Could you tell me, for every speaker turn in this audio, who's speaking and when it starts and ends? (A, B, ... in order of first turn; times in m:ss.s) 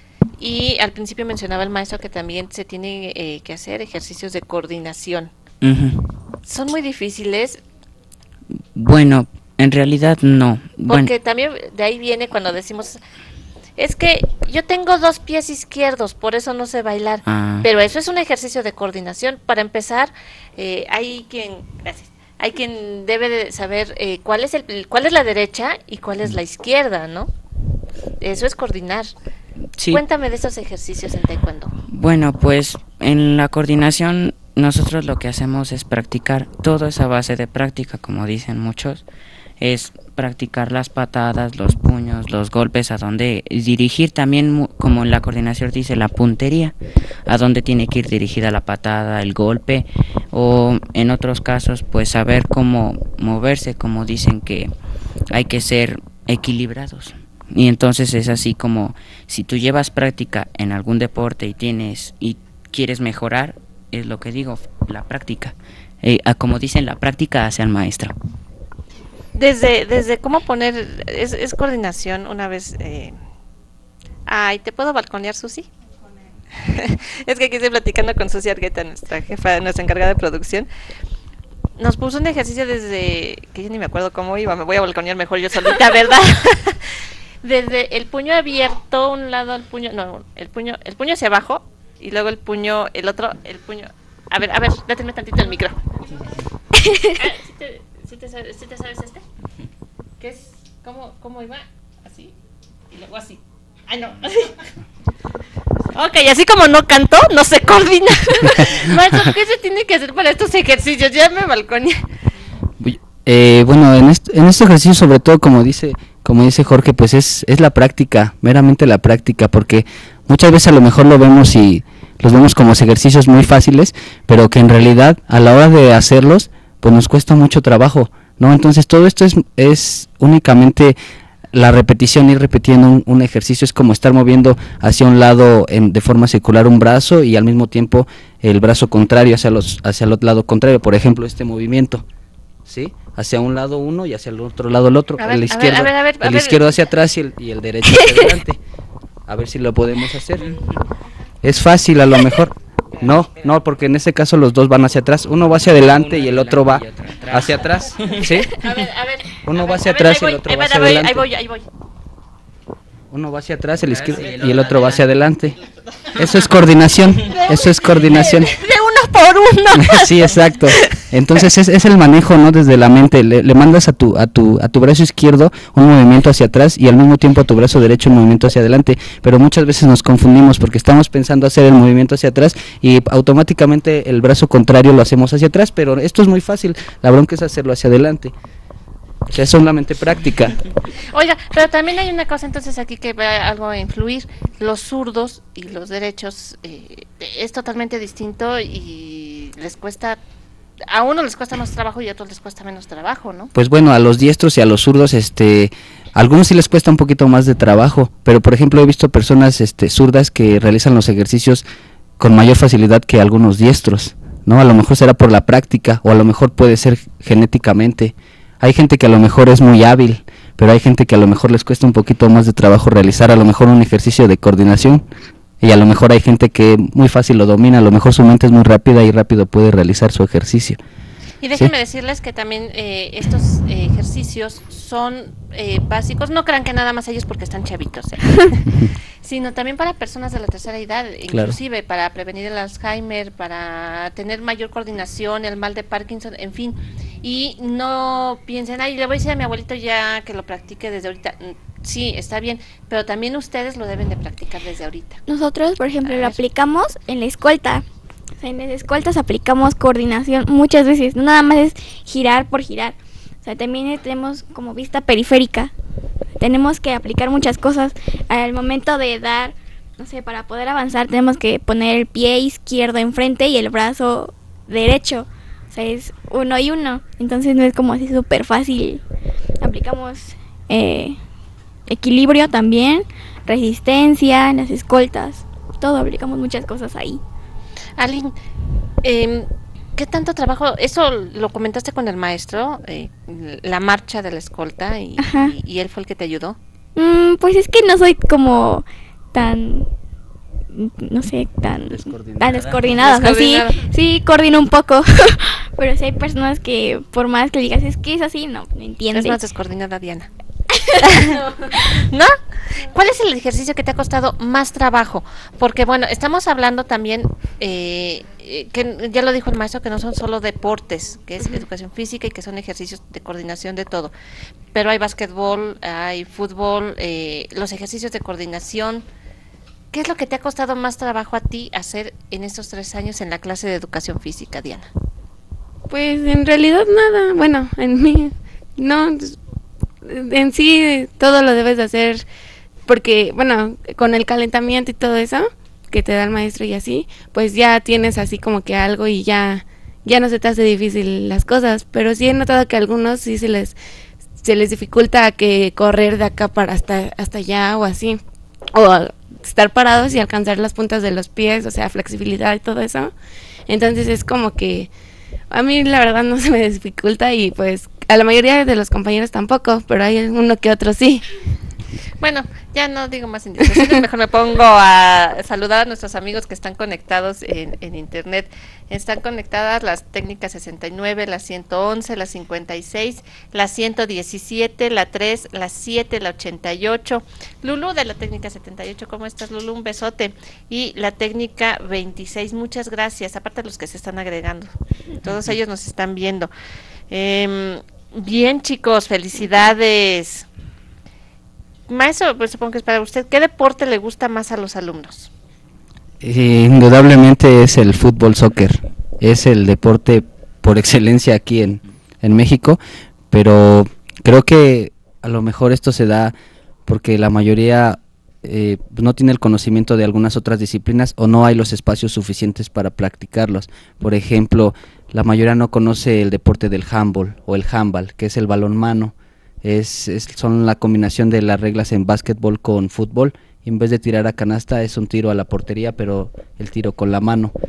0:00.4-0:05.3 A
0:05.6-0:06.1 B
0:06.4-0:07.6 A
0:08.8-0:11.1 B
0:10.9-0:13.0 A
0:13.8-0:27.3 A
0:17.3-0:17.7 B
0:28.2-0:29.1 A
0:29.8-0:30.0 B
0:29.9-0:31.7 A
0:31.9-0:39.0 B
0:39.6-0:46.8 B
0:47.3-0:54.7 B
0:55.3-1:08.1 B
1:09.4-1:13.2 A
1:14.3-1:15.7 A
1:16.5-1:20.7 A
1:21.8-1:26.8 A
1:27.4-1:35.8 A
1:36.8-1:37.2 C
1:37.2-1:39.2 A
1:40.2-1:42.4 A
1:42.9-1:44.7 A
1:45.9-1:52.1 A
1:52.8-2:11.0 D
2:11.5-2:22.0 D
2:22.6-2:28.6 D
2:25.2-2:26.7 A
2:29.3-2:30.6 D
2:31.4-2:38.5 D
2:35.7-2:38.4 B
2:38.2-2:41.7 A
2:39.4-2:41.2 D
2:43.1-2:45.6 D
2:43.9-2:45.1 B
2:46.1-2:48.6 D
2:47.3-2:51.0 A
2:49.8-3:08.3 D
3:09.3-3:10.6 D
3:11.0-3:20.2 A
3:20.9-3:23.5 A
3:23.6-3:31.6 D
3:32.2-3:45.0 D
3:45.6-3:50.8 D
3:51.4-4:15.2 A
4:01.3-4:01.6 D
4:15.3-4:17.8 C
4:16.0-4:16.4 A
4:18.4-4:25.7 C
4:26.4-4:39.0 C
4:39.6-4:41.2 C
4:41.9-4:47.2 C
4:48.0-4:48.4 A
4:49.0-4:56.6 A
4:55.2-4:55.5 C
4:57.0-4:59.9 C
5:00.7-5:09.4 C
5:01.9-5:02.8 D
5:02.9-5:03.8 A
5:09.1-5:10.3 A
5:10.7-5:12.0 C
5:11.0-5:24.1 A
5:24.7-5:29.1 A
5:29.9-5:34.9 A
5:35.9-5:39.4 E
5:40.0-5:42.2 E
5:42.9-5:53.8 E
5:54.4-5:58.2 E
5:58.7-6:03.1 E
6:03.7-6:04.9 E
6:05.5-6:11.3 E
6:12.2-6:34.7 A
6:35.2-6:36.5 A
6:37.1-6:40.5 A
6:41.9-6:45.3 A
6:46.2-6:52.8 D
6:53.3-6:56.3 D
6:56.9-7:17.5 D